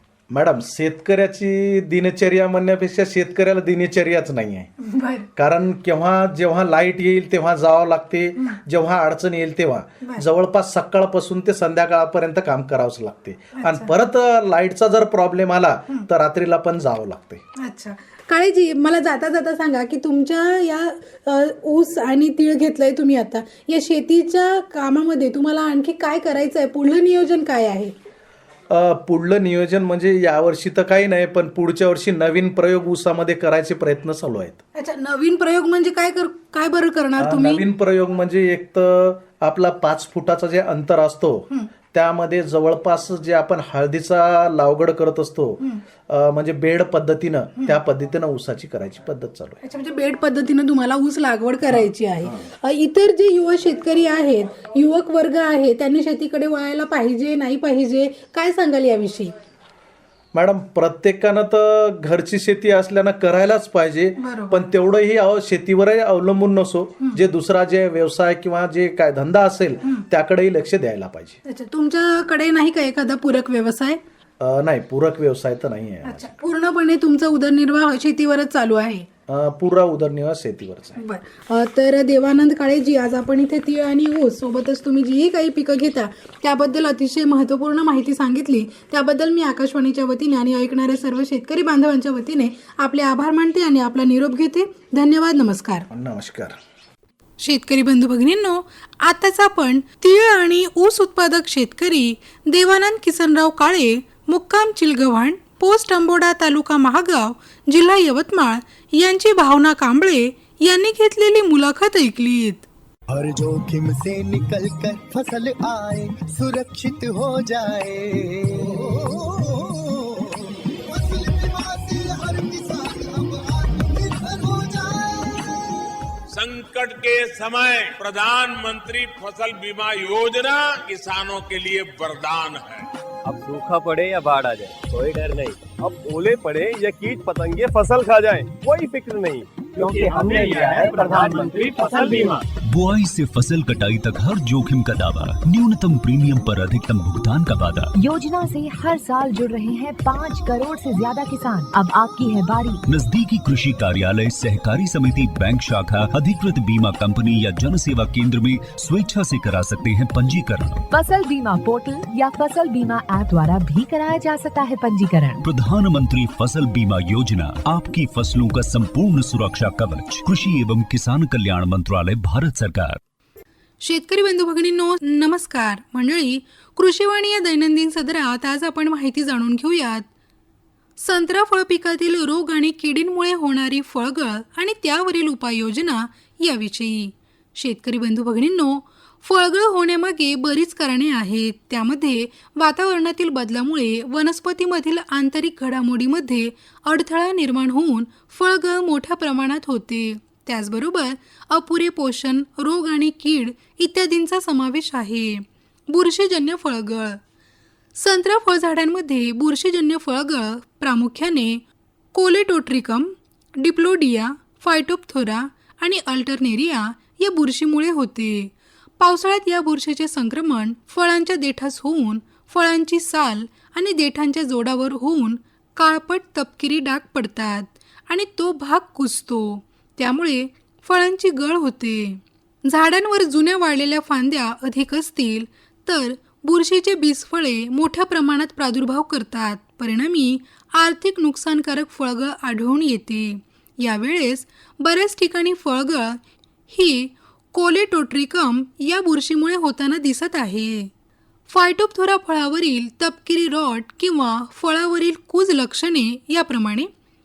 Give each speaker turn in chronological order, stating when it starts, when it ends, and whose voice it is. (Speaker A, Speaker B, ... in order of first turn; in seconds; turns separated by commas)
Speaker A: 0.3-4.7, Speaker B: 4.8-5.3, Speaker A: 5.3-17.4, Speaker B: 13.5-13.9, Speaker B: 17.6-27.9, Speaker A: 28.7-34.6, Speaker B: 34.7-37.6, Speaker A: 37.2-49.6, Speaker B: 49.6-59.3, Speaker A: 60.3-71.4, Speaker B: 64.2-64.6, Speaker B: 71.5-74.0, Speaker A: 74.4-76.3, Speaker B: 76.0-79.0, Speaker A: 79.3-81.0, Speaker B: 81.0-95.9, Speaker A: 95.9-96.6, Speaker B: 97.4-112.7, Speaker C: 113.1-125.5, Speaker D: 126.3-132.9, Speaker E: 133.2-142.4, Speaker D: 139.8-142.4, Speaker F: 142.7-147.9, Speaker G: 147.9-152.8, Speaker F: 152.9-160.8, Speaker G: 160.9-165.4, Speaker F: 165.4-173.0, Speaker B: 173.8-180.1, Speaker B: 181.0-207.2, Speaker B: 207.9-211.6, Speaker B: 212.1-250.9, Speaker B: 251.5-256.9